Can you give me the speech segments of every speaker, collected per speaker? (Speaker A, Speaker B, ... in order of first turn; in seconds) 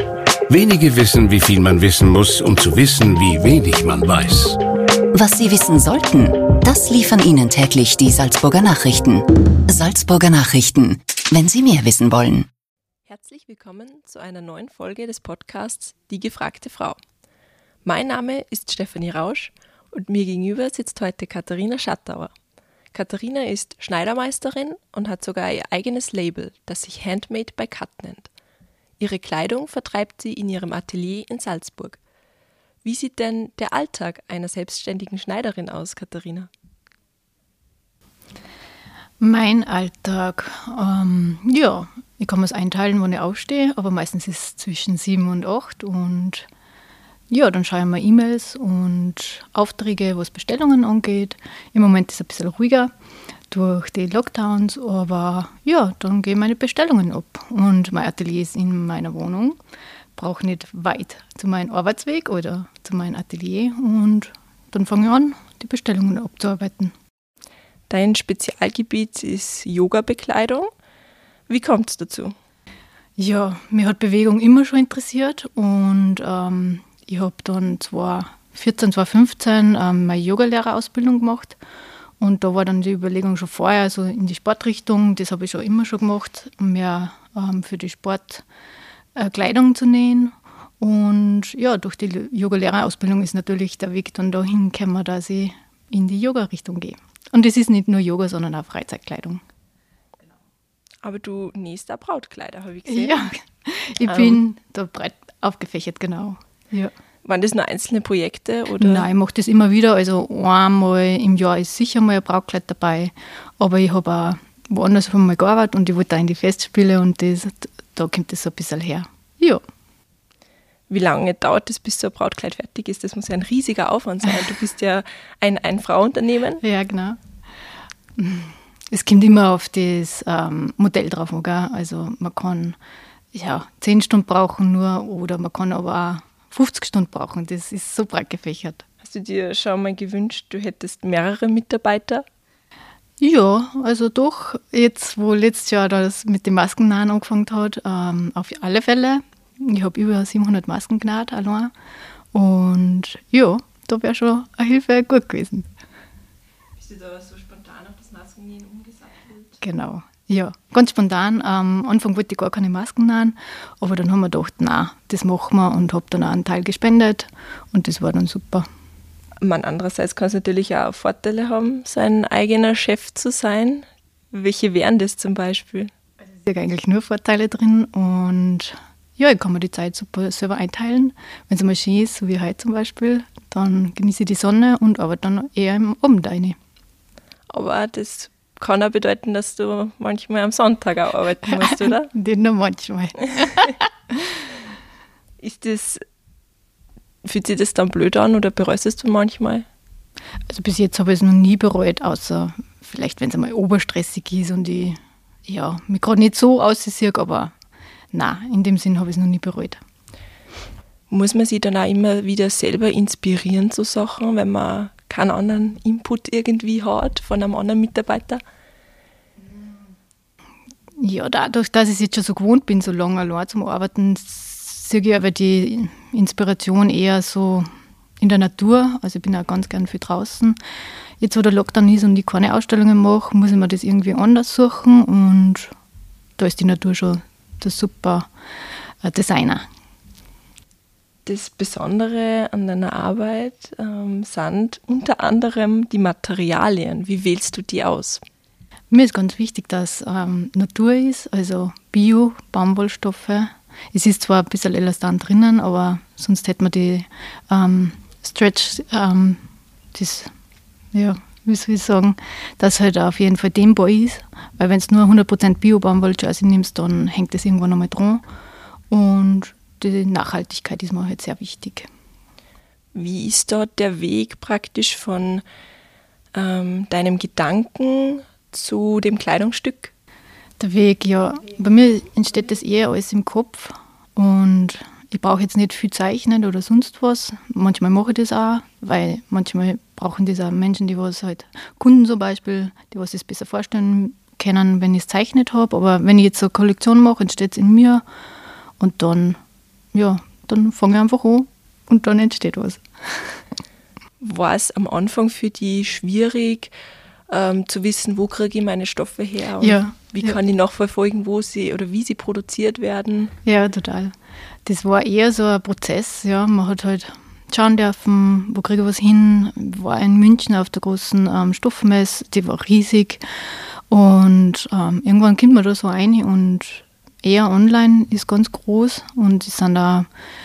Speaker A: 0.5-4.6
Speaker B: 5.1-12.5
Speaker C: 13.1-17.0, 17.9-22.3, 22.9-28.3, 29.0-32.0, 32.8-36.5, 67.9-70.7, 71.5-72.3, 101.0-103.2, 104.1-104.4, 107.2-109.1, 120.9-126.6, 139.0-142.2, 156.8-159.6, 169.4-175.9, 187.5-192.1, 195.4-196.0, 197.2-199.7, 211.1-218.4, 241.3-248.2, 272.9-275.4, 276.3-279.9, 304.2-306.7, 307.3-313.3
Speaker D: 39.2-46.5, 47.3-52.9, 53.5-59.6, 60.2-66.9, 73.2-81.6, 82.2-88.5, 89.2-99.4, 102.9-106.9, 108.8-119.6, 126.6-127.2, 128.2-132.8, 133.3-138.8, 143.2-151.7, 152.3-155.7, 159.6-168.7, 176.3-186.6, 191.6-194.2, 200.5-207.5, 208.1-209.8, 221.0-227.7, 228.2-230.6, 231.2-235.7, 236.4-238.3, 239.0-239.7, 248.9-259.4, 259.9-260.3, 260.9-268.2, 268.9-271.9, 280.6-298.0, 298.8-299.4, 299.9-303.4, 309.6-310.4, 313.4-314.1, 314.6-323.2, 323.9-330.1